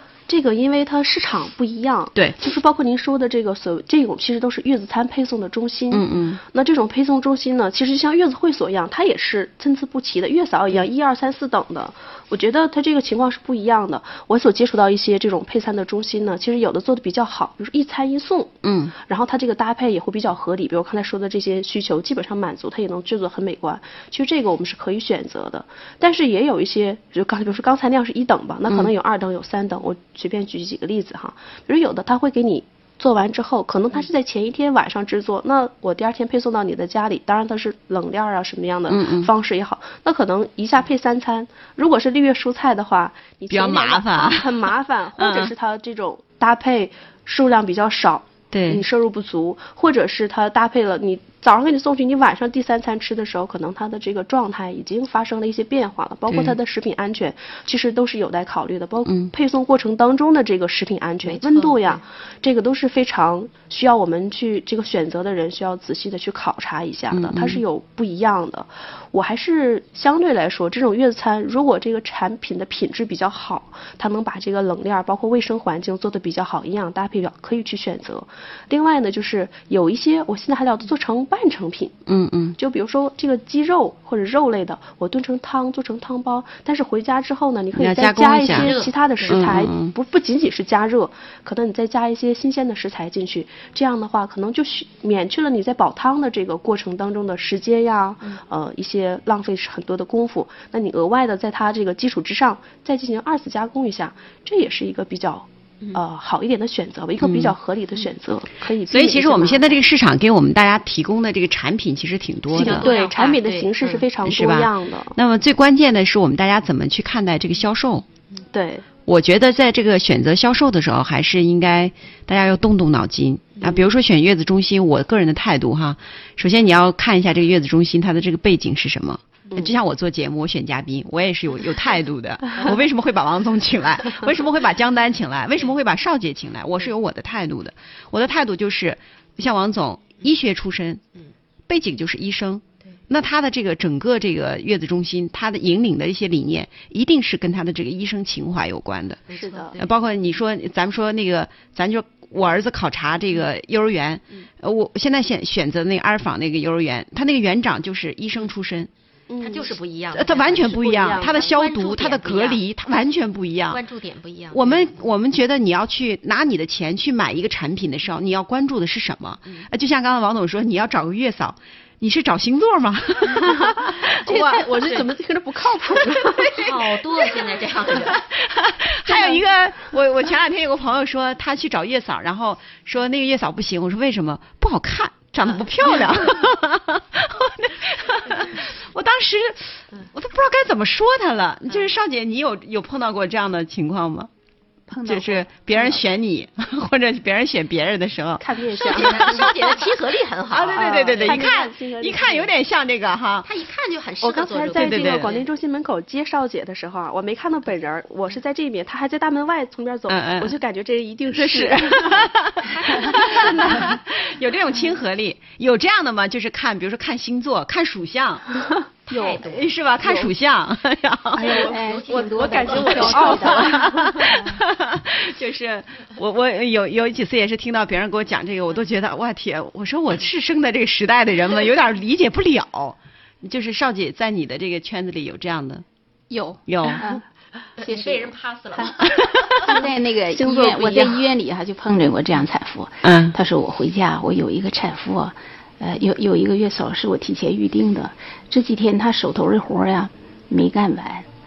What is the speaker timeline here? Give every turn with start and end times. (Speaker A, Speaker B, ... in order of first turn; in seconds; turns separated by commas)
Speaker A: 0.3-82.0, Speaker B: 5.9-6.4, Speaker B: 18.6-18.9, Speaker B: 38.9-39.3, Speaker B: 43.5-45.5, Speaker B: 48.5-48.8, Speaker B: 56.3-56.5, Speaker B: 59.1-59.3, Speaker C: 61.2-62.0, Speaker B: 67.1-67.6, Speaker B: 82.1-82.6, Speaker A: 82.6-109.8, Speaker B: 87.8-88.7, Speaker C: 88.5-89.5, Speaker B: 89.3-89.9, Speaker B: 107.2-107.5, Speaker B: 108.9-112.9, Speaker A: 112.5-115.2, Speaker C: 112.6-114.0, Speaker B: 114.2-118.0, Speaker A: 118.5-118.8, Speaker B: 119.1-141.0, Speaker B: 141.7-149.2, Speaker C: 149.3-149.9, Speaker A: 149.3-149.8, Speaker B: 149.8-158.9, Speaker A: 159.3-159.7, Speaker C: 159.4-162.6, Speaker B: 160.1-163.8, Speaker A: 160.8-161.4, Speaker C: 163.7-164.9, Speaker B: 164.5-174.6, Speaker A: 173.3-176.7, Speaker C: 174.7-175.1, Speaker C: 176.6-178.2, Speaker B: 178.1-194.3, Speaker A: 179.1-179.4, Speaker D: 194.9-195.5, Speaker B: 195.1-199.7, Speaker D: 198.4-199.0, Speaker A: 198.8-199.4, Speaker C: 198.8-201.5, Speaker B: 200.5-203.5, Speaker A: 200.8-202.5, Speaker C: 203.4-205.5, Speaker A: 204.2-213.9, Speaker B: 204.8-205.3, Speaker B: 210.1-210.6, Speaker B: 211.3-218.5, Speaker C: 219.1-219.7, Speaker D: 219.1-219.4, Speaker B: 219.4-221.7, Speaker D: 220.0-220.3, Speaker D: 221.3-224.6, Speaker A: 221.4-224.1, Speaker C: 221.5-223.5, Speaker B: 222.7-235.8, Speaker D: 236.3-237.2, Speaker B: 236.7-237.0, Speaker C: 237.8-239.2, Speaker D: 237.8-251.3, Speaker A: 240.3-241.3, Speaker B: 243.0-243.3